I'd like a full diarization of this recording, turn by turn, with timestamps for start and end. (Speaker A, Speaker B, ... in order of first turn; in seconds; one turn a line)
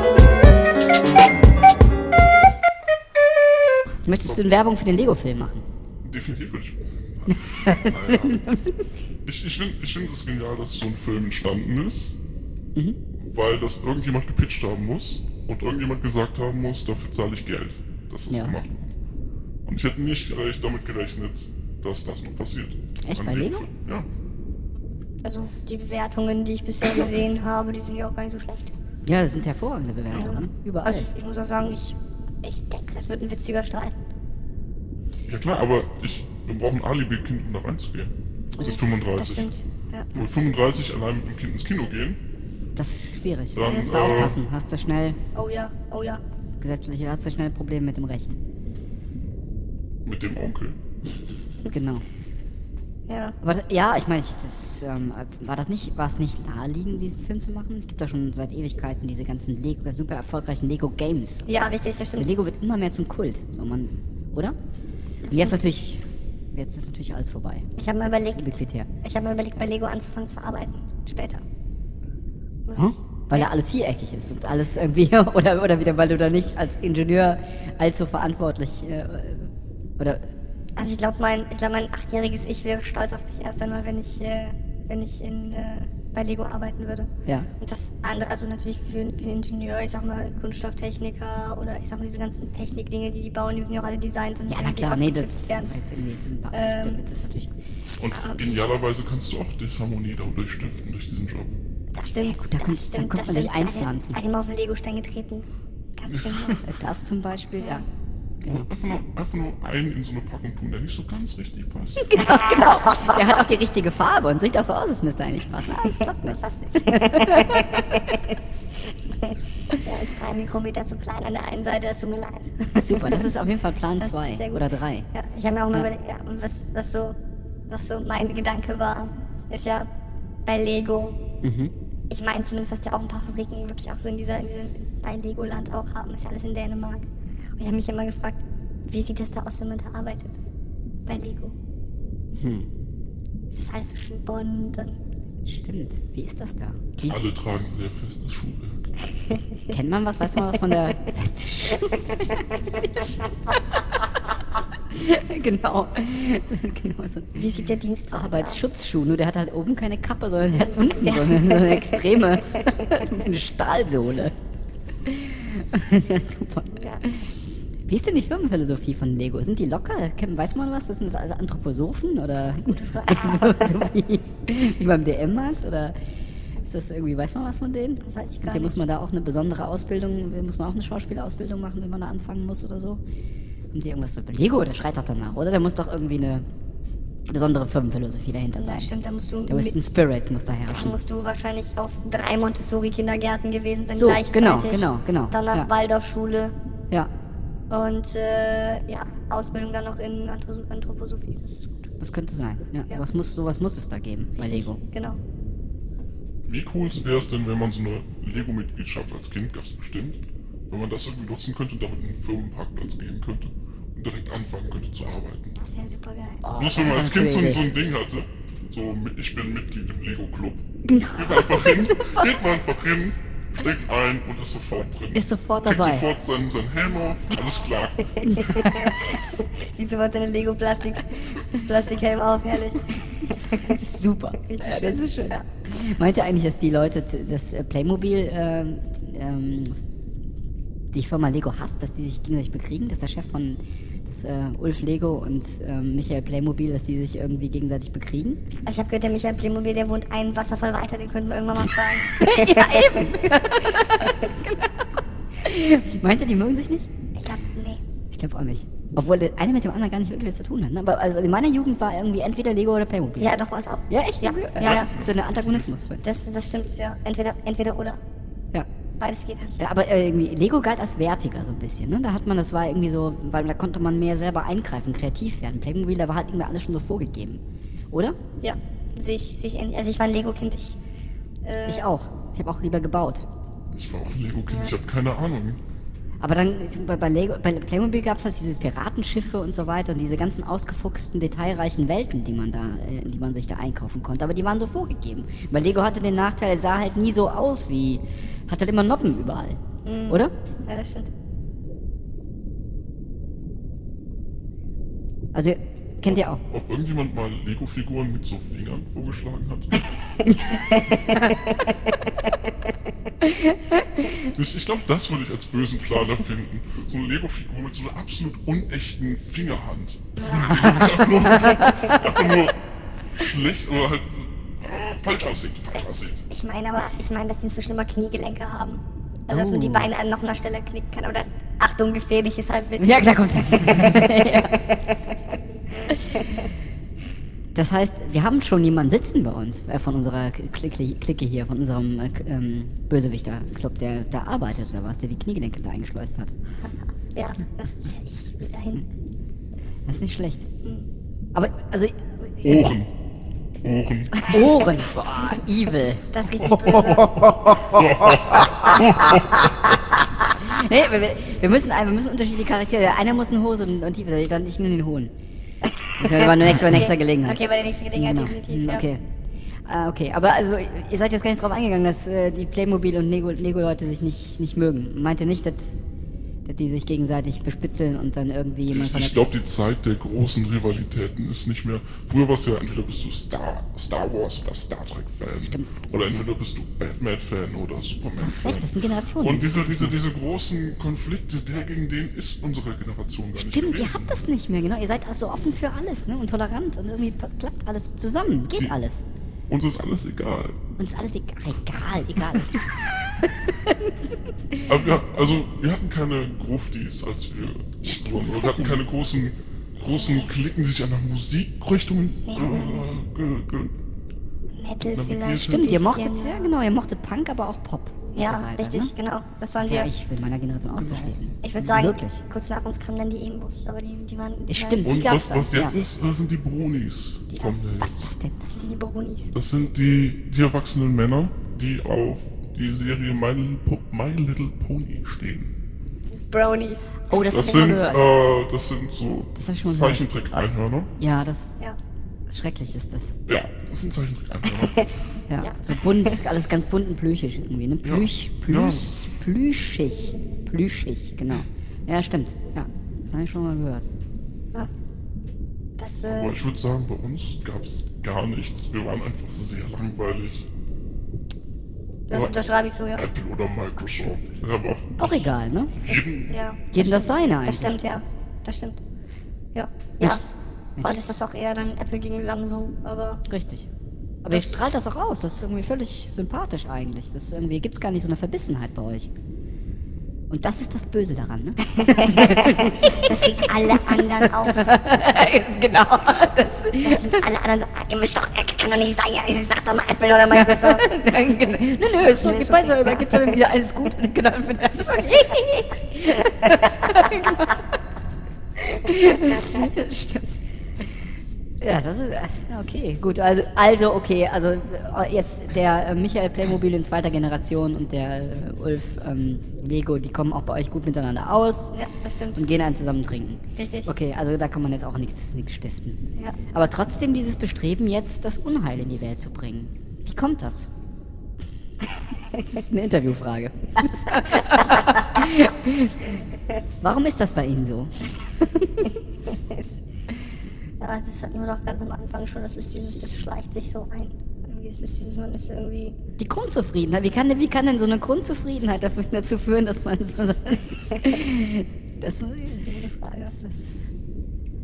Speaker A: 4.0-5.6
Speaker B: 6.0-8.4
Speaker A: 7.3-8.9
Speaker B: 9.2-12.2
Speaker B: 13.2-18.9
Speaker A: 18.3-18.6
Speaker B: 19.6-24.1
Speaker A: 23.0-23.7
Speaker C: 25.2-28.8
Speaker A: 29.1-31.1
Speaker C: 30.1-34.0
Speaker B: 35.3-39.5
Speaker C: 38.6-40.1
Speaker B: 40.1-42.2
Speaker A: 42.8-45.2
Speaker B: 43.5-44.4
Speaker C: 43.6-44.4
Speaker C: 45.3-46.2
Speaker A: 46.6-48.3
Speaker B: 50.0-50.8
Speaker A: 51.7-52.0
Speaker C: 53.1-53.4
Speaker A: 53.4-61.5
Speaker C: 61.5-62.2
Speaker A: 62.1-64.5
Speaker A: 65.3-68.9
Speaker C: 65.3-65.6
Speaker C: 67.8-71.4
Speaker C: 72.7-73.5
Speaker A: 72.8-80.3
Speaker C: 80.8-95.7
Speaker A: 94.5-97.5
Speaker C: 96.5-97.0
Speaker B: 98.0-101.6
Speaker C: 98.2-98.5
Speaker C: 101.9-106.6
Speaker A: 102.2-104.2
Speaker B: 106.1-106.7
Speaker A: 106.6-107.8
Speaker C: 107.6-107.8
Speaker B: 108.4-112.2
Speaker A: 112.0-118.0
Speaker C: 112.2-113.1
Speaker C: 116.0-118.2
Speaker C: 119.8-123.3
Speaker A: 122.8-125.1
Speaker C: 124.0-127.2
Speaker C: 127.7-129.9
Speaker C: 130.4-131.2
Speaker A: 131.4-131.7
Speaker C: 132.1-137.1
Speaker C: 137.6-140.4
Speaker C: 141.1-141.5
Speaker A: 142.3-142.7
Speaker C: 143.5-145.0
Speaker A: 145.4-147.3
Speaker B: 147.0-149.0
Speaker A: 149.7-154.2
Speaker A: 154.9-157.5
Speaker C: 157.3-158.7
Speaker A: 158.1-164.3
Speaker C: 161.0-162.4
Speaker A: 165.1-167.3
Speaker C: 166.7-167.0
Speaker A: 167.8-175.9
Speaker C: 172.4-173.9
Speaker A: 176.7-183.0
Speaker C: 178.1-178.8
Speaker A: 183.7-186.4
Speaker A: 187.3-188.9
Speaker C: 188.6-189.7
Speaker A: 189.5-191.0
Speaker C: 190.7-196.5
Speaker A: 193.9-195.7
Speaker C: 197.7-201.8
Speaker A: 202.0-204.8
Speaker C: 204.4-205.2
Speaker B: 206.4-215.6
Speaker C: 215.6-216.4
Speaker A: 216.4-217.7
Speaker B: 216.5-228.1
Speaker A: 220.8-222.4
Speaker A: 225.1-226.1
Speaker A: 228.2-229.2
Speaker C: 228.4-233.8
Speaker A: 233.7-239.8
Speaker C: 234.5-235.4
Speaker A: 240.9-248.4
Speaker C: 248.7-253.1
Speaker A: 252.2-254.8
Speaker A: 255.4-256.9
Speaker C: 257.2-257.8
Speaker A: 258.1-266.0
Speaker C: 263.2-264.9
Speaker B: 264.6-265.7
Speaker C: 266.0-268.0
Speaker C: 269.0-269.6
Speaker A: 269.6-278.2
Speaker C: 278.4-280.8
Speaker C: 281.4-281.9
Speaker A: 281.7-283.2
Speaker B: 283.7-285.6
Speaker C: 284.5-284.7
Speaker A: 286.2-300.3
Speaker C: 299.8-301.1
Speaker A: 305.3-306.4
Speaker B: 306.5-309.8
Speaker C: 310.4-311.3
Speaker A: 311.0-311.2
Speaker A: 313.2-314.3
Speaker B: 314.2-322.6
Speaker C: 320.2-321.8
Speaker A: 321.4-321.9
Speaker B: 323.1-326.2
Speaker C: 326.3-334.5
Speaker A: 329.3-329.9
Speaker A: 332.8-334.8
Speaker A: 336.1-336.4
Speaker A: 337.5-346.3
Speaker C: 347.1-348.8
Speaker A: 349.9-350.4
Speaker A: 351.3-352.7
Speaker B: 352.4-352.9
Speaker B: 353.6-354.4
Speaker A: 354.3-356.1
Speaker C: 356.1-357.7
Speaker B: 357.6-359.5
Speaker A: 360.2-365.1
Speaker A: 366.0-367.4
Speaker C: 366.0-368.8
Speaker A: 367.9-369.0
Speaker A: 369.6-375.8
Speaker A: 376.4-379.3
Speaker B: 378.7-394.2
Speaker A: 385.4-386.2
Speaker A: 388.2-390.0
Speaker A: 393.4-399.0
Speaker B: 399.5-400.6
Speaker A: 400.8-403.9
Speaker B: 404.6-413.7
Speaker A: 407.8-408.8
Speaker C: 409.9-410.3
Speaker C: 412.3-413.0
Speaker C: 414.5-416.5
Speaker B: 414.9-415.9
Speaker A: 415.5-418.9
Speaker C: 418.1-419.9
Speaker A: 419.6-422.2
Speaker B: 420.7-421.2
Speaker C: 421.4-425.0
Speaker A: 424.5-425.8
Speaker B: 424.8-428.1
Speaker C: 427.3-427.7
Speaker A: 427.8-428.5
Speaker C: 428.5-429.3
Speaker B: 429.3-435.5
Speaker C: 436.3-437.8
Speaker A: 437.1-438.0
Speaker B: 437.2-440.9
Speaker A: 439.3-440.1
Speaker A: 441.0-441.5
Speaker A: 442.3-443.2
Speaker B: 443.3-444.8
Speaker C: 444.4-446.2
Speaker A: 445.3-453.9
Speaker B: 447.8-449.1
Speaker C: 455.8-456.4
Speaker B: 456.0-460.5
Speaker C: 462.1-463.1
Speaker B: 462.1-462.4
Speaker B: 462.9-466.2
Speaker A: 465.0-467.8
Speaker C: 466.2-468.8
Speaker C: 469.5-470.3
Speaker C: 470.8-473.2
Speaker A: 473.3-473.7
Speaker A: 474.2-479.1
Speaker C: 474.3-474.6
Speaker A: 480.3-487.2
Speaker C: 481.8-484.8
Speaker C: 486.8-490.9
Speaker A: 490.3-497.6
Speaker C: 491.8-493.3
Speaker A: 498.6-500.4
Speaker A: 501.6-511.7
Speaker C: 511.7-512.4
Speaker A: 512.4-520.7
Speaker C: 513.6-513.9
Speaker A: 522.3-526.2
Speaker A: 526.8-529.0
Speaker C: 529.3-529.7
Speaker C: 530.8-536.0
Speaker A: 536.2-543.8
Speaker C: 542.7-543.3